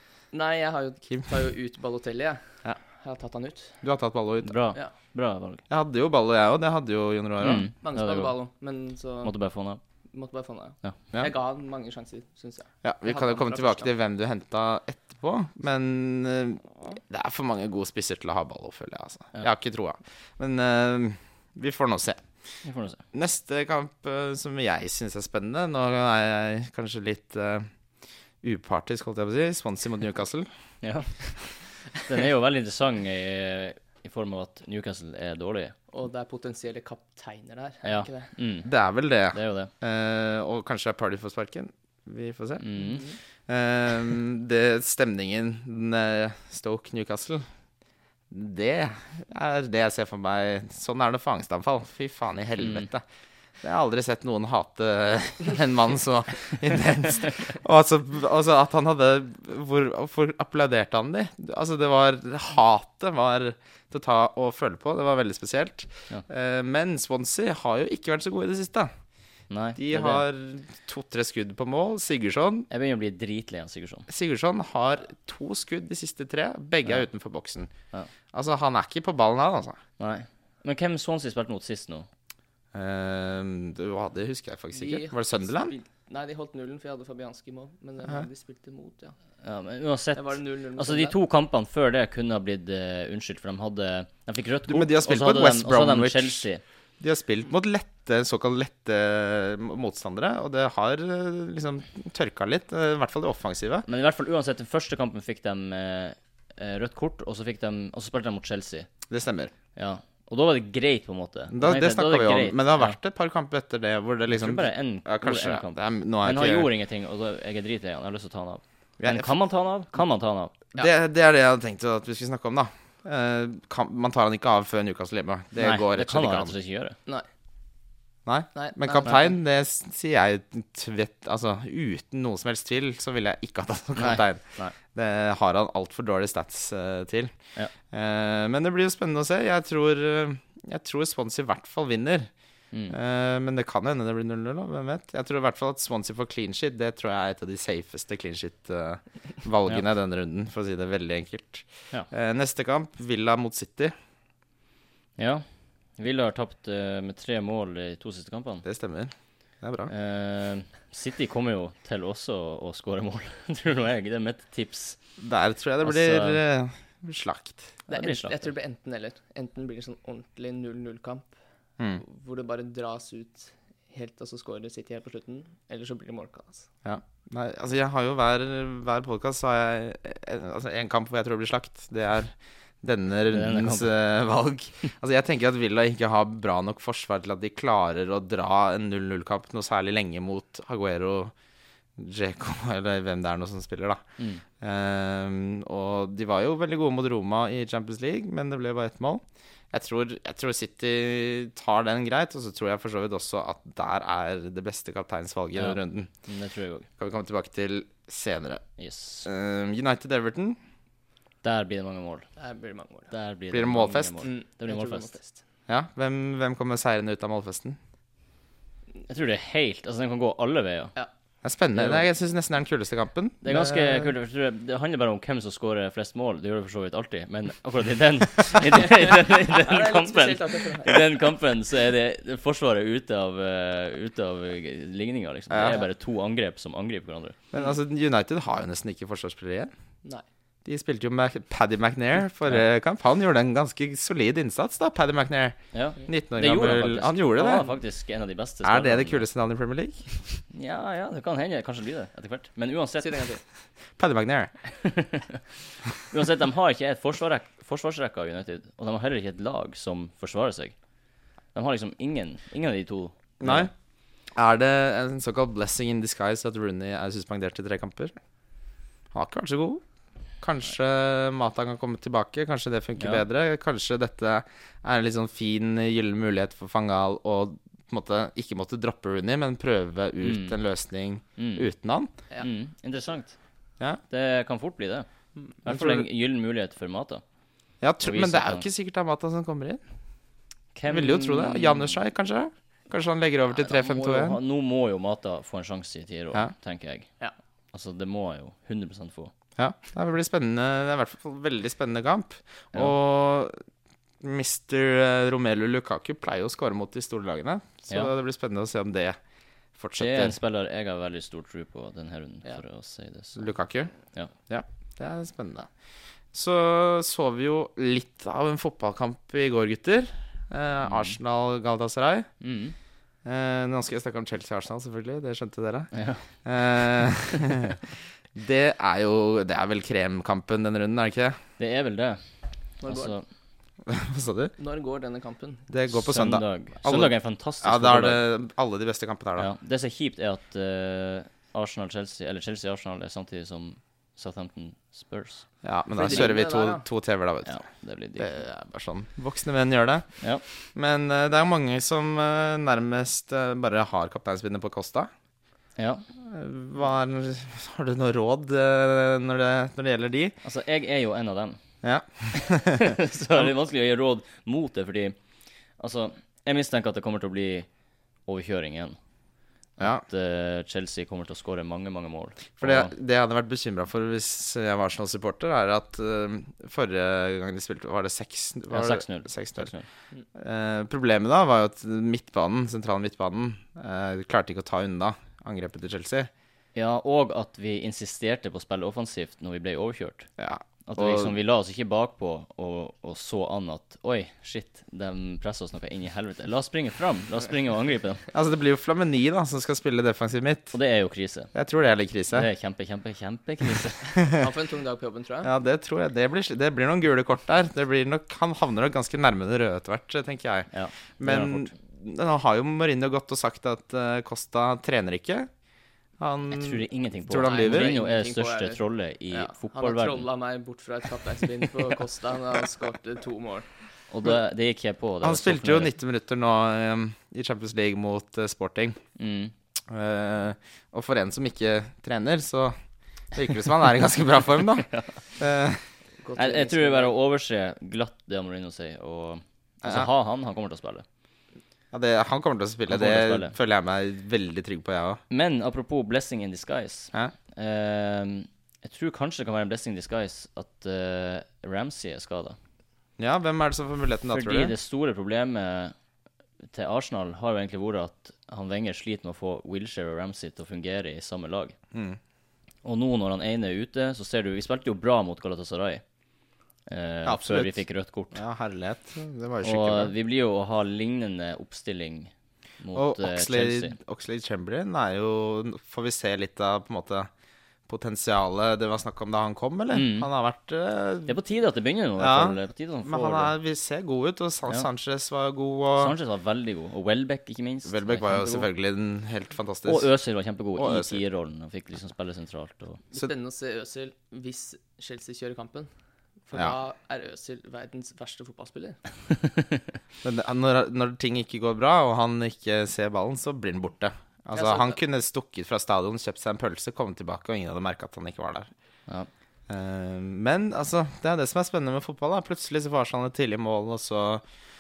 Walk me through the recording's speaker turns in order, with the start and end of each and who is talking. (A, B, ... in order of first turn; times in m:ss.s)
0:00.3-0:02.4 A
0:03.0-0:03.8 A
0:03.8-0:04.6 B
0:04.4-0:05.6 C
0:05.7-0:07.7 B
0:07.4-0:08.3 C
0:07.8-0:09.3 A
0:09.2-0:09.8 C
0:10.1-0:13.9 A
0:12.8-0:22.2 B
0:22.6-0:23.0 C
0:23.1-0:27.7 B
0:28.4-0:30.5 B
0:30.8-0:31.4 C
0:32.0-0:35.8 C
0:35.9-0:38.3 A
0:37.8-0:38.7 C
0:38.6-0:42.6 B
0:39.3-0:39.7 C
0:42.6-0:43.0 C
0:42.8-0:43.1 A
0:43.5-0:47.4 B
0:48.3-0:53.0 B
0:52.6-0:52.9 C
0:53.6-1:08.9 B
1:09.5-1:10.2 C
1:09.8-1:12.7 B
1:12.7-1:14.1 C
1:14.1-1:17.7 B
1:18.3-1:19.8 B
1:20.0-1:22.1 C
1:22.7-1:25.7 B
1:24.7-1:29.1 A
1:29.4-1:36.6 C
1:30.1-1:31.2 A
1:34.7-1:36.5 B
1:37.0-1:43.9 B
1:43.8-1:48.9 C
1:49.1-1:49.5 B
1:49.8-1:53.0 C
1:51.5-1:56.7 B
1:54.3-2:00.5 C
1:59.0-1:59.4 B
2:00.8-2:06.6 B
2:05.6-2:07.0 C
2:08.2-2:17.3 B
2:08.6-2:09.3 A
2:14.0-2:14.8 C
2:17.9-2:22.3 B
2:22.9-2:33.9 B
2:35.2-2:35.4 C
2:36.0-2:38.6 C
2:38.6-2:39.9 B
2:39.9-2:45.0 C
2:45.2-2:47.7 B
2:45.8-2:46.4 C
2:47.9-2:48.4 C
2:47.9-2:51.3 A
2:52.0-2:56.7 A
2:56.8-3:11.3 B
3:03.3-3:03.9 C
3:12.0-3:26.1 B
3:25.6-3:26.9 C
3:27.0-3:28.6 B
3:28.8-3:29.3 C
3:29.2-3:30.6 B
3:31.4-3:32.3 C
3:32.4-3:33.1 A
3:33.1-3:35.2 C
3:33.5-3:34.2 B
3:34.2-3:35.4 A
3:35.7-3:37.8 B
3:39.1-3:40.9 C
3:41.4-3:44.1 B
3:41.8-3:42.1 C
3:43.4-3:57.4 C
3:48.9-3:51.1 A
3:55.5-3:55.8 B
3:57.5-3:59.7 B
4:00.6-4:07.7 B
4:05.7-4:09.2 C
4:08.6-4:10.4 B
4:10.5-4:13.2 C
4:13.0-4:13.4 A
4:14.0-4:14.5 B
4:14.8-4:15.4 C
4:16.1-4:20.8 C
4:21.5-4:23.7 C
4:23.4-4:23.7 B
4:24.3-4:28.1 B
4:29.1-4:29.8 B
4:30.4-4:42.1 B
4:33.0-4:33.2 C
4:40.2-4:40.6 C
4:41.4-4:41.6 C
4:42.4-4:43.4 C
4:44.1-4:45.1 C
4:45.6-4:47.2 C
4:45.6-4:46.1 B
4:47.8-4:49.8 B
4:48.0-4:48.6 C
4:50.8-4:51.9 C
4:50.9-4:54.4 B
4:53.6-4:57.1 C
4:57.7-4:59.3 C
4:59.6-5:03.6 B
5:04.2-5:09.2 B
5:09.8-5:10.4 B
5:10.0-5:13.5 C
5:13.4-5:13.9 B
5:14.5-5:15.7 B
5:16.3-5:22.3 B
5:20.8-5:21.2 C
5:22.4-5:22.8 C
5:23.2-5:25.9 B
5:25.9-5:26.3 C
5:26.4-5:27.8 B
5:28.4-5:31.4 B
5:31.6-5:32.2 C
5:32.8-5:33.2 A
5:32.8-5:33.2 C
5:33.8-5:34.5 B
5:34.6-5:35.7 A
5:35.7-5:39.5 B
5:35.9-5:38.2 C
5:39.4-5:45.4 C
5:45.6-5:47.6 B
5:46.0-5:46.8 A
5:46.0-5:46.3 C
5:47.4-5:48.3 C
5:48.2-5:50.1 B
5:50.7-5:55.1 B
5:55.8-5:56.0 C
5:56.2-6:00.4 B
6:00.4-6:01.6 C
6:01.8-6:03.5 B
6:02.3-6:05.2 C
6:05.8-6:07.7 C
6:08.3-6:09.0 C
6:09.8-6:12.9 C
6:12.6-6:19.7 B
6:18.7-6:19.9 C
6:20.4-6:26.3 B
6:26.8-6:30.3 C
6:30.4-6:31.4 B
6:30.9-6:38.2 C
6:38.3-6:40.7 B
6:40.7-6:41.5 C
6:41.5-6:42.5 B
6:42.3-6:44.2 C
6:44.2-6:45.5 A
6:45.4-6:55.5 B
6:50.7-6:51.7 C
6:56.2-6:57.9 B
6:56.5-7:00.2 C
6:57.4-7:03.7 A
7:04.1-7:05.9 C
7:05.2-7:09.0 B
7:09.2-7:09.5 C
7:09.9-7:12.8 B
7:13.3-7:15.8 B
7:14.9-7:15.2 C
7:16.2-7:17.1 A
7:16.4-7:21.0 C
7:19.8-7:20.1 B
7:21.9-7:25.2 B
7:22.9-7:23.5 C
7:25.3-7:32.6 C
7:33.2-7:34.7 B
7:34.3-7:35.9 C
7:36.7-7:41.8 C
7:41.9-7:42.2 B
7:42.8-7:46.0 C
7:46.9-7:48.4 C
7:47.2-7:50.1 B
7:49.6-7:54.0 C
7:52.9-7:57.3 B
7:57.9-8:01.4 B
7:59.9-8:00.3 C
8:01.3-8:03.5 C
8:02.2-8:06.1 B
8:06.0-8:08.7 C
8:07.8-8:10.1 B
8:09.9-8:13.0 C
8:10.8-8:11.2 B
8:13.1-8:15.9 A
8:16.5-8:19.0 A
8:19.4-8:19.8 C
8:20.2-8:28.7 B
8:24.5-8:25.0 A
8:29.7-8:34.4 B